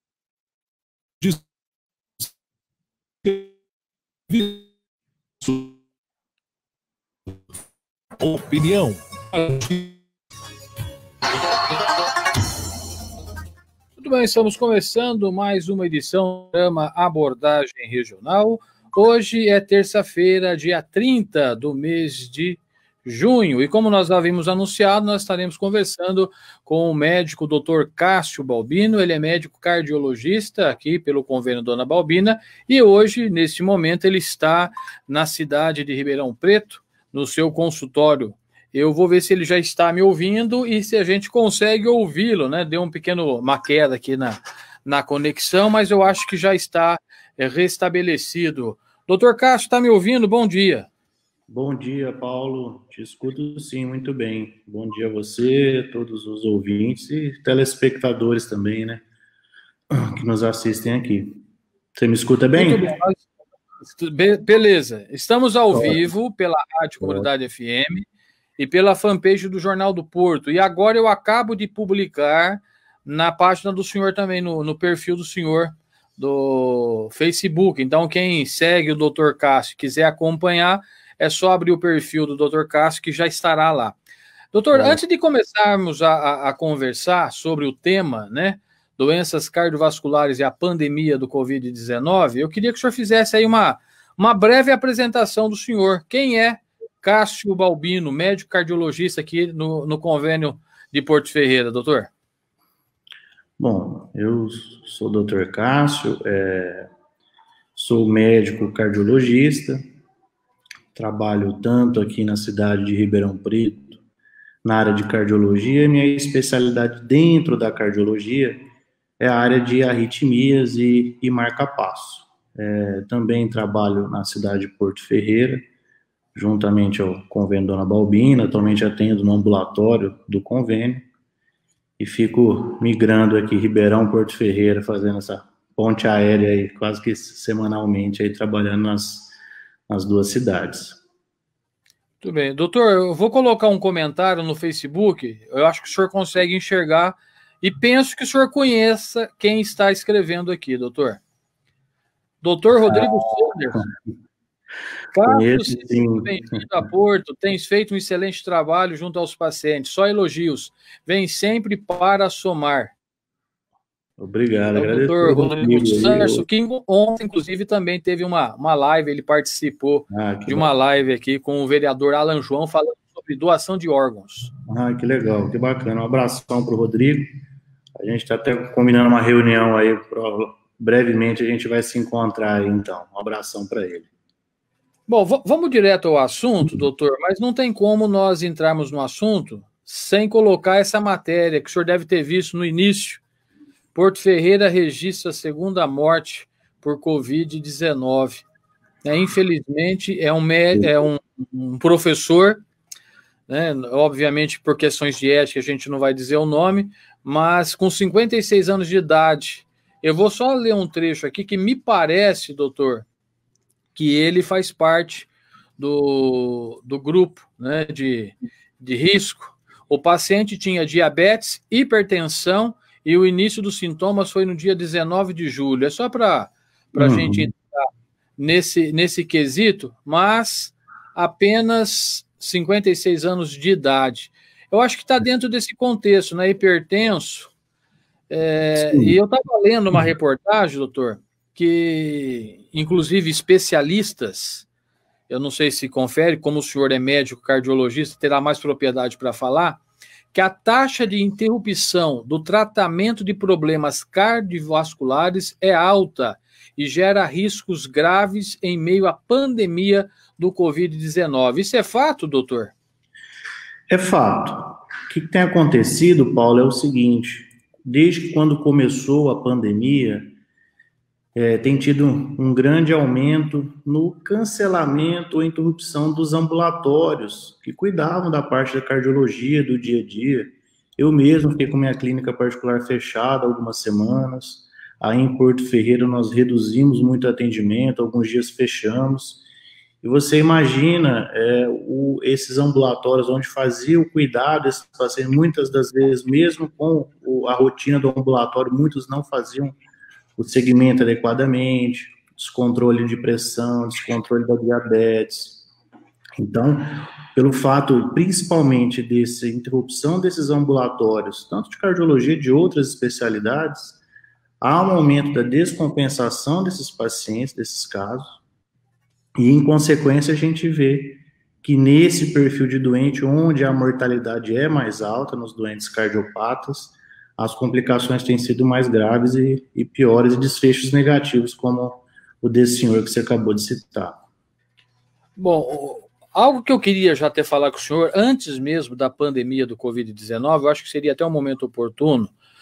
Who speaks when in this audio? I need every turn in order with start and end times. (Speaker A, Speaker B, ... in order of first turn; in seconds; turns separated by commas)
Speaker A: 3.2-3.5, Speaker A: 4.3-4.7, Speaker A: 5.4-5.7, Speaker A: 8.2-9.9, Speaker B: 14.0-50.9, Speaker C: 51.5-59.0, Speaker C: 59.9-61.4, Speaker C: 62.0-62.8, Speaker B: 62.5-63.3, Speaker B: 63.8-68.0, Speaker C: 65.7-66.1, Speaker C: 67.0-67.3, Speaker B: 68.6-84.0, Speaker B: 84.5-102.1, Speaker C: 84.7-85.0, Speaker C: 103.6-106.9, Speaker C: 107.8-109.8, Speaker C: 111.0-114.0, Speaker C: 114.6-118.6, Speaker C: 119.2-125.6, Speaker C: 126.3-131.1, Speaker C: 132.0-139.3, Speaker C: 139.9-141.0, Speaker B: 142.2-151.2, Speaker B: 152.4-153.8, Speaker B: 155.2-162.9, Speaker C: 155.2-156.7, Speaker C: 164.2-166.5, Speaker B: 164.8-174.5, Speaker C: 170.1-170.7, Speaker C: 174.6-177.4, Speaker C: 178.0-184.1, Speaker B: 185.1-193.2, Speaker B: 193.9-198.4, Speaker B: 199.0-202.6, Speaker B: 203.5-213.1, Speaker B: 213.9-237.5, Speaker C: 226.9-227.5, Speaker B: 238.3-244.7, Speaker C: 238.8-239.2, Speaker B: 245.3-249.8, Speaker B: 250.3-262.7, Speaker C: 263.9-270.4, Speaker C: 271.4-289.4, Speaker C: 290.0-299.8, Speaker C: 300.4-305.6, Speaker C: 306.4-314.0, Speaker C: 314.6-318.4, Speaker C: 319.4-334.3, Speaker B: 335.4-342.3